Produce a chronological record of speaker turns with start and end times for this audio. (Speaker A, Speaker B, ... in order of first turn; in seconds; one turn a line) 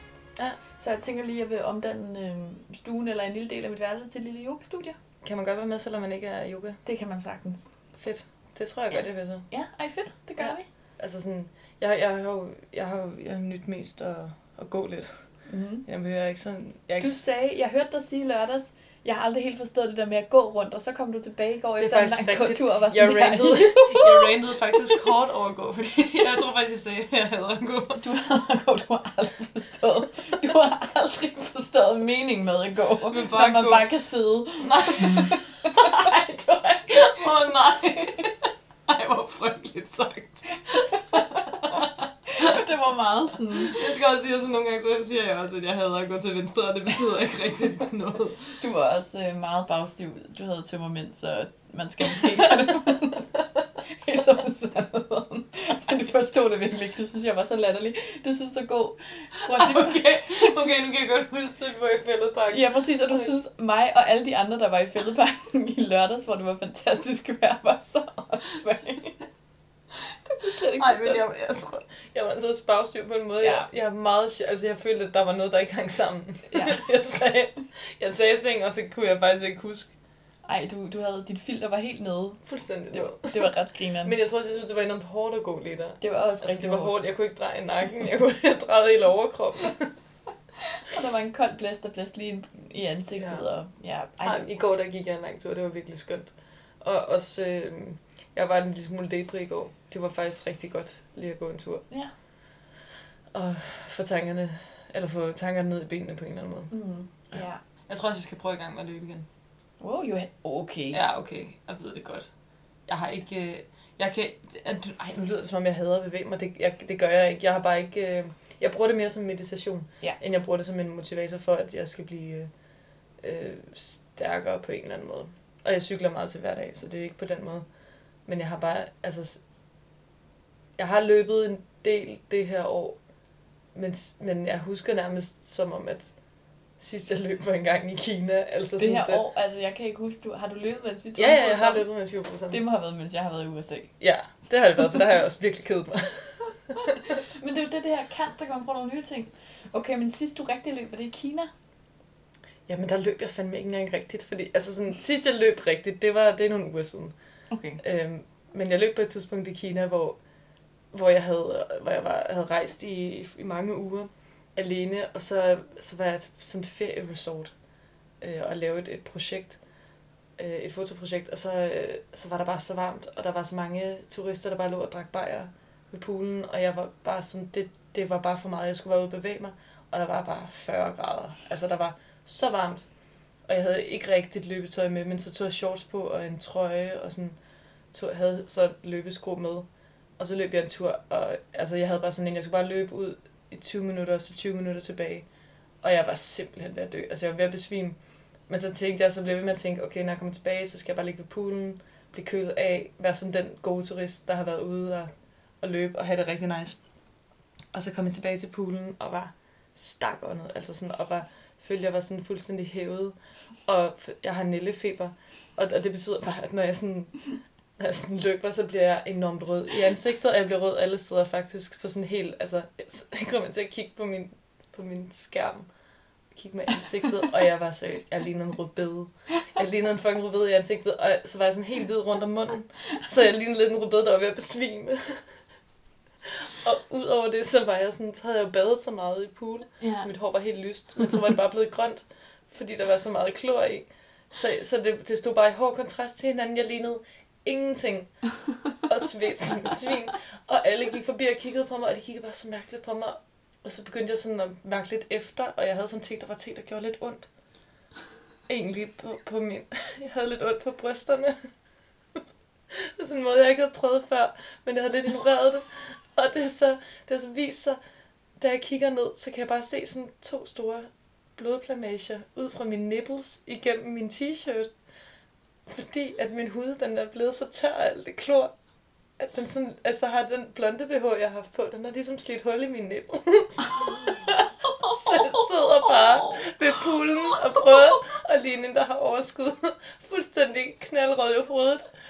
Speaker A: 0.8-5.0
Speaker B: 5.2-6.8
Speaker A: 6.8-7.7
Speaker B: 8.0-9.5
Speaker A: 8.9-10.7
Speaker B: 10.4-17.3
Speaker A: 15.5-15.8
Speaker A: 17.0-24.9
Speaker B: 21.8-28.0
Speaker A: 28.0-35.7
Speaker B: 33.1-33.9
Speaker B: 34.6-42.5
Speaker A: 42.3-43.9
Speaker B: 43.6-48.6
Speaker A: 48.6-53.3
Speaker B: 52.0-53.4
Speaker A: 53.9-60.5
Speaker B: 59.5-63.3
Speaker A: 62.5-69.2
Speaker A: 70.2-71.2
Speaker B: 70.8-79.9
Speaker A: 73.4-73.7
Speaker A: 76.5-76.9
Speaker A: 80.5-84.1
Speaker B: 82.4-83.5
Speaker B: 84.0-89.9
Speaker A: 86.0-87.0
Speaker A: 90.8-94.5
Speaker B: 93.2-93.4
Speaker B: 94.2-101.8
Speaker B: 103.3-109.3
Speaker A: 106.7-107.6
Speaker A: 109.8-111.0
Speaker B: 110.9-112.3
Speaker B: 112.9-122.5
Speaker B: 123.2-127.7
Speaker B: 128.2-129.4
Speaker B: 130.8-133.0
Speaker B: 133.7-136.1
Speaker B: 136.8-139.2
Speaker A: 138.8-141.9
Speaker B: 141.1-142.6
Speaker A: 142.5-143.9
Speaker B: 144.0-146.9
Speaker A: 147.3-151.5
Speaker B: 152.7-157.1
Speaker A: 157.5-157.8
Speaker B: 157.8-160.2
Speaker B: 160.9-167.5
Speaker B: 168.2-169.6
Speaker B: 170.4-182.9
Speaker B: 183.5-187.4
Speaker B: 187.9-195.3
Speaker B: 195.8-206.8
Speaker B: 207.7-225.7
Speaker B: 226.3-235.3
Speaker B: 236.3-248.3
Speaker A: 239.8-240.1
Speaker B: 248.8-257.3
Speaker B: 258.5-261.4
Speaker B: 262.7-267.8
Speaker B: 268.4-274.7
Speaker B: 275.7-278.5
Speaker B: 279.2-291.9
Speaker A: 284.8-286.4